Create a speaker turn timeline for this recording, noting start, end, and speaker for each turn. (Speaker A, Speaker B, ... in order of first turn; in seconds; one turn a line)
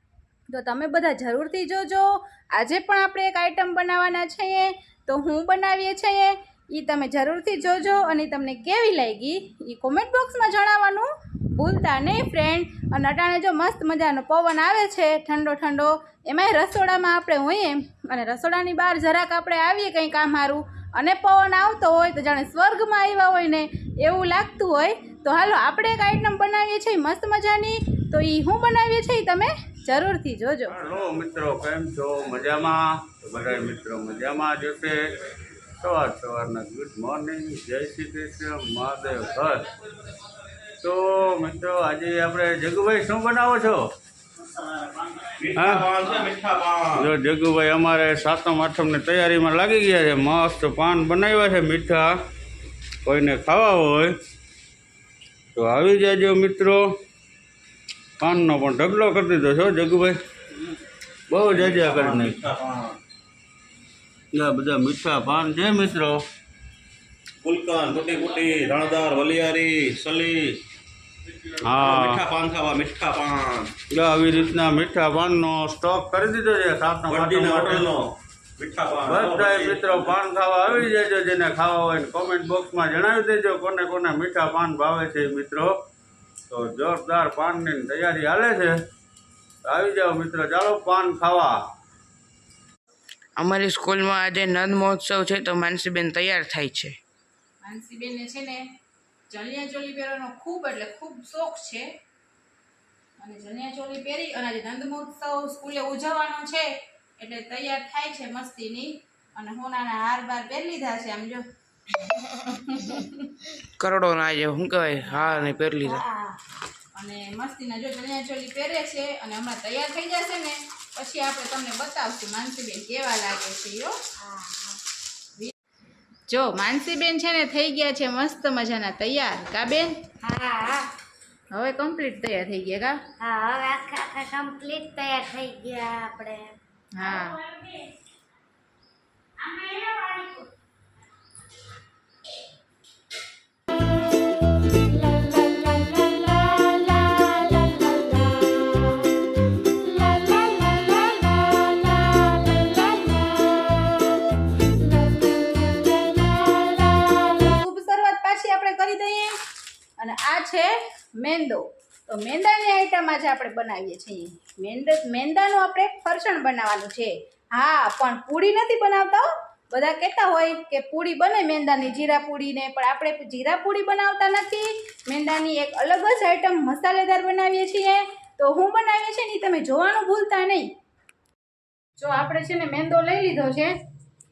Speaker A: 0.5-30.7
Speaker B: 30.7-35.0
Speaker B: 35.8-39.6
Speaker B: 40.8-43.9
Speaker C: 45.2-47.1
Speaker B: 45.5-45.9
Speaker B: 47.0-52.2
Speaker B: 53.0-54.1
Speaker B: 55.5-56.9
Speaker B: 58.2-60.2
Speaker B: 61.3-62.4
Speaker C: 61.5-63.0
Speaker B: 64.3-66.2
Speaker C: 67.4-70.6
Speaker B: 71.6-72.2
Speaker C: 71.7-73.7
Speaker B: 73.9-77.9
Speaker C: 77.1-80.1
Speaker B: 79.0-85.7
Speaker B: 86.5-88.8
Speaker B: 89.6-91.6
Speaker D: 93.4-97.0
Speaker A: 97.6-98.7
Speaker A: 99.3-101.9
Speaker A: 103.2-111.4
Speaker A: 112.1-113.2
Speaker D: 113.8-116.0
Speaker A: 115.2-116.3
Speaker A: 116.9-124.0
Speaker E: 124.2-124.8
Speaker A: 126.3-130.1
Speaker E: 130.2-130.9
Speaker A: 131.5-133.0
Speaker E: 133.2-136.6
Speaker A: 136.9-137.4
Speaker E: 139.4-140.5
Speaker A: 157.0-159.4
Speaker A: 160.0-180.7
Speaker A: 182.0-183.8